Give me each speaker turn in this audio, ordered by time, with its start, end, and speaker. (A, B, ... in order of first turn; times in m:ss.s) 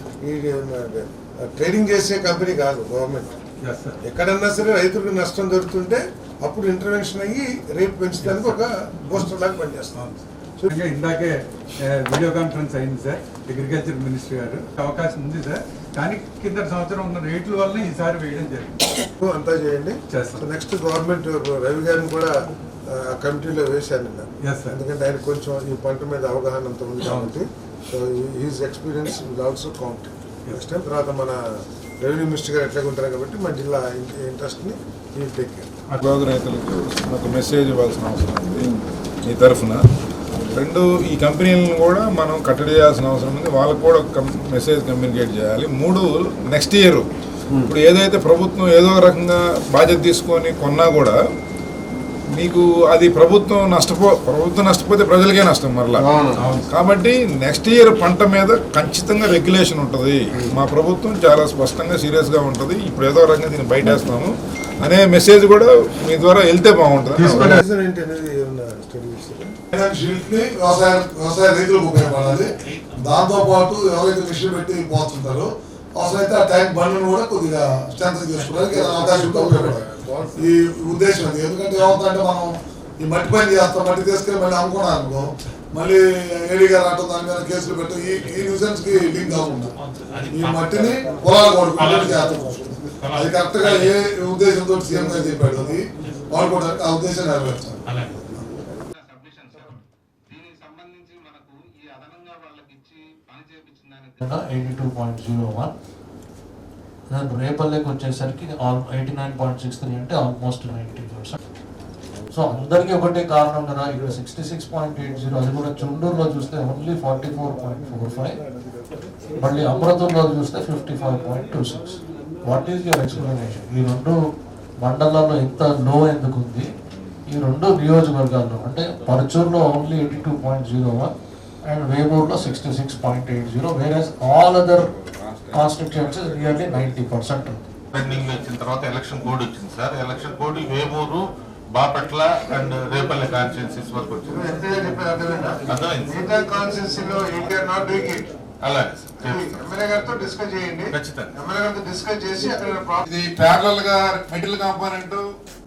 0:00.2-0:03.3 A
0:03.6-0:04.0 B
0:04.0-0:10.0 A
0:08.2-0:08.5 B
0:09.9-0:18.9 B
0:19.2-0:22.3 A
0:20.1-0:20.5 B
0:22.9-0:31.4 A
0:24.4-0:24.8 B
0:32.0-0:35.7 A
0:36.0-0:38.7 C
0:39.3-0:39.8 C
0:40.4-0:47.1 C
0:47.6-0:51.2 C
0:52.4-0:56.1 C
0:56.0-0:56.5 A
0:56.4-0:56.7 B
0:56.7-1:07.6 C
1:07.1-1:09.5 A
1:07.3-1:07.6 B
1:09.7-1:29.7 D
1:18.5-1:20.5 A
1:30.1-1:30.8 E
1:30.3-1:38.4 D
1:31.8-1:32.2 E
1:33.0-1:33.9 E
1:38.9-1:44.2 E
1:44.2-1:45.7 F
1:47.1-1:51.4 F
1:52.3-1:58.4 F
1:59.4-2:04.2 F
2:04.8-2:06.7 F
2:07.3-2:11.1 F
2:11.7-2:14.9 F
2:14.9-2:16.9 C
2:15.5-2:17.6 F
2:17.9-2:24.3 E
2:24.2-2:28.3 A
2:25.7-2:26.1 E
2:28.6-2:29.6 E
2:29.1-2:33.0 A
2:30.9-2:31.3 E
2:33.0-2:35.2 C